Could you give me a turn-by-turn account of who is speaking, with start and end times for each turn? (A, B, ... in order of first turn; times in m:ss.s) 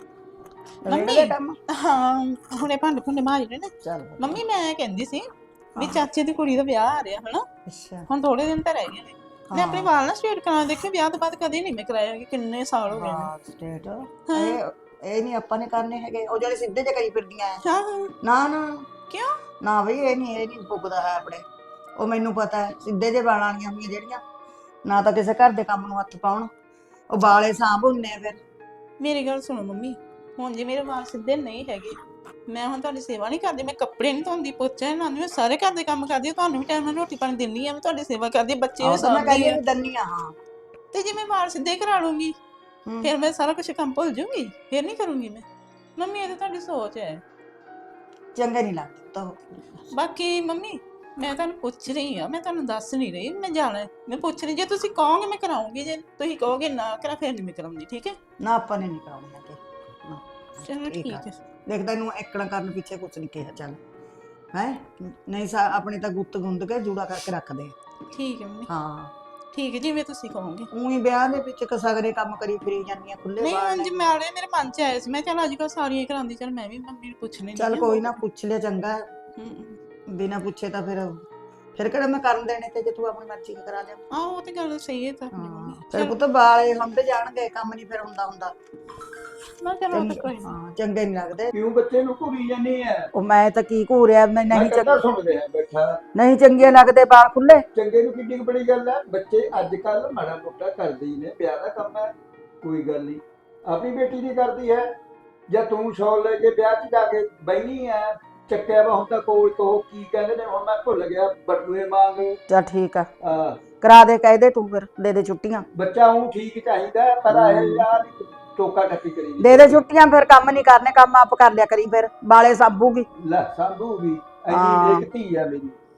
0:00.8-0:01.6 A
0:00.9-0:07.5 B
0:03.8-0:04.4 A
0:05.8-0:06.1 A
0:07.7-0:08.1 A
0:08.1-0:13.3 B
0:09.5-0:09.9 A
0:12.9-0:17.6 A
0:14.3-0:14.6 B
0:17.6-0:18.1 B
0:18.2-0:18.9 A
0:19.6-0:21.4 A
0:22.0-0:24.2 A
0:24.9-0:26.5 A
0:27.1-0:28.4 A
0:29.0-0:32.0 B
0:32.5-0:39.6 B
0:38.8-0:40.4 A
0:40.9-0:42.3 B
0:42.9-0:43.1 A
0:43.0-0:45.4 B
0:46.0-0:47.2 B
0:48.4-0:49.8 A
0:49.9-0:58.2 B
0:58.4-1:03.8 A
1:00.6-1:01.4 B
1:04.5-1:07.7 A
1:08.1-1:08.7 B
1:08.7-1:09.1 A
1:09.5-1:10.7 B
1:10.7-1:14.2 A
1:13.4-1:18.2 B
1:17.6-1:19.0 A
1:19.4-1:19.8 B
1:20.1-1:21.2 A
1:21.8-1:24.0 A
1:24.1-1:26.2 B
1:25.3-1:28.5 A
1:29.6-1:30.5 B
1:29.9-1:31.5 A
1:31.5-1:33.1 C
1:33.1-1:35.0 A
1:34.5-1:36.0 C
1:36.2-1:37.6 A
1:37.8-1:44.9 C
1:45.5-1:52.4 C
1:52.5-1:53.1 A
1:53.2-1:53.6 C
1:53.8-1:55.7 A
1:55.8-1:59.8 C
1:57.3-1:57.9 A
1:59.4-2:03.1 A
2:03.2-2:05.8 C
2:04.5-2:05.1 A